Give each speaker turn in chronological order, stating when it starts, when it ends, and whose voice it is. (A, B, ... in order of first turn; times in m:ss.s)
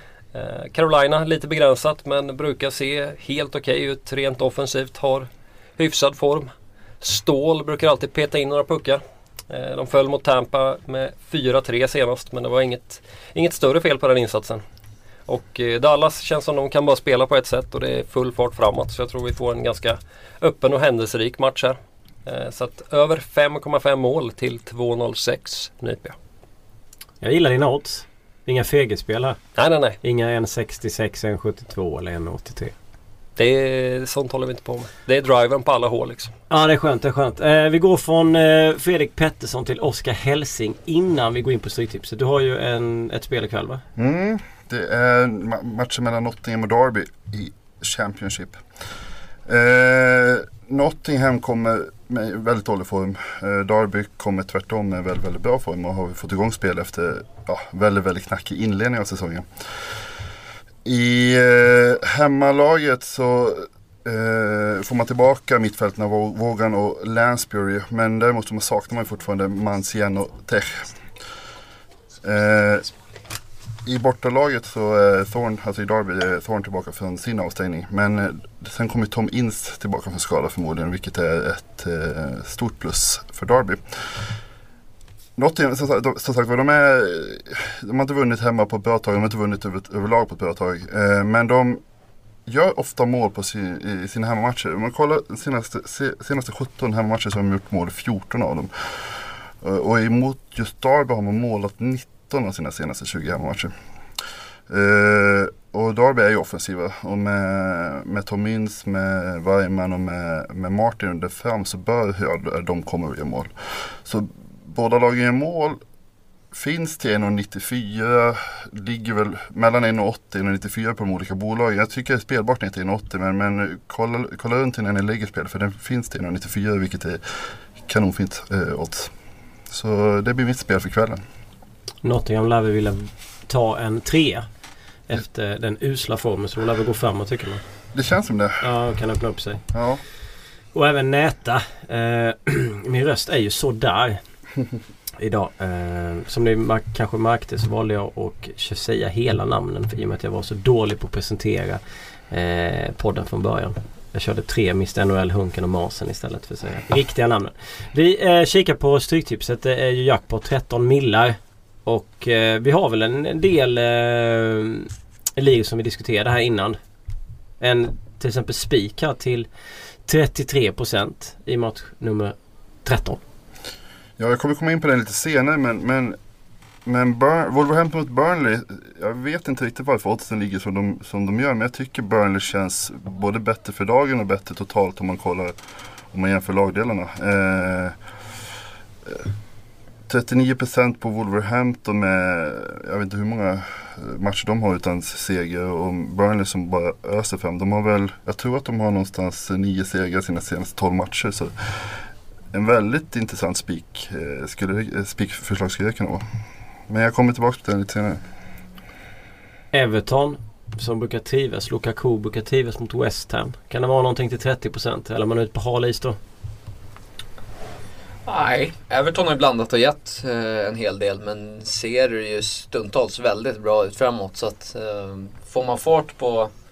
0:00.3-0:14.6 A
0:15.3-0:26.2 A
0:27.2-0:29.4 B
0:29.6-0:30.0 A
0:30.0-0:32.7 B
0:33.4-0:36.3 A
0:36.5-0:43.8 B
0:44.0-0:48.6 C
0:49.5-0:59.5 C
1:00.8-1:11.0 C
1:12.2-1:12.9 C
1:13.8-1:24.3 C
1:25.4-1:31.8 C
1:32.4-1:43.7 C
1:44.7-1:53.5 C
1:54.0-1:55.8 C
1:56.5-2:07.2 C
2:07.8-2:09.1 C
2:09.7-2:11.2 C
2:12.0-2:14.4 B
2:15.1-2:17.6 B
2:17.9-2:18.7 C
2:18.6-2:19.6 B
2:19.7-2:20.0 C
2:20.7-2:24.2 B
2:25.2-2:46.8 B
2:47.6-2:49.5 B
2:50.0-2:53.2 B
2:54.2-2:56.2 C
2:56.8-3:05.5 C
3:06.1-3:08.0 C
3:10.1-3:22.0 C
3:22.5-3:26.2 C
3:26.9-3:28.2 C
3:29.7-3:36.2 B
3:38.2-3:46.5 D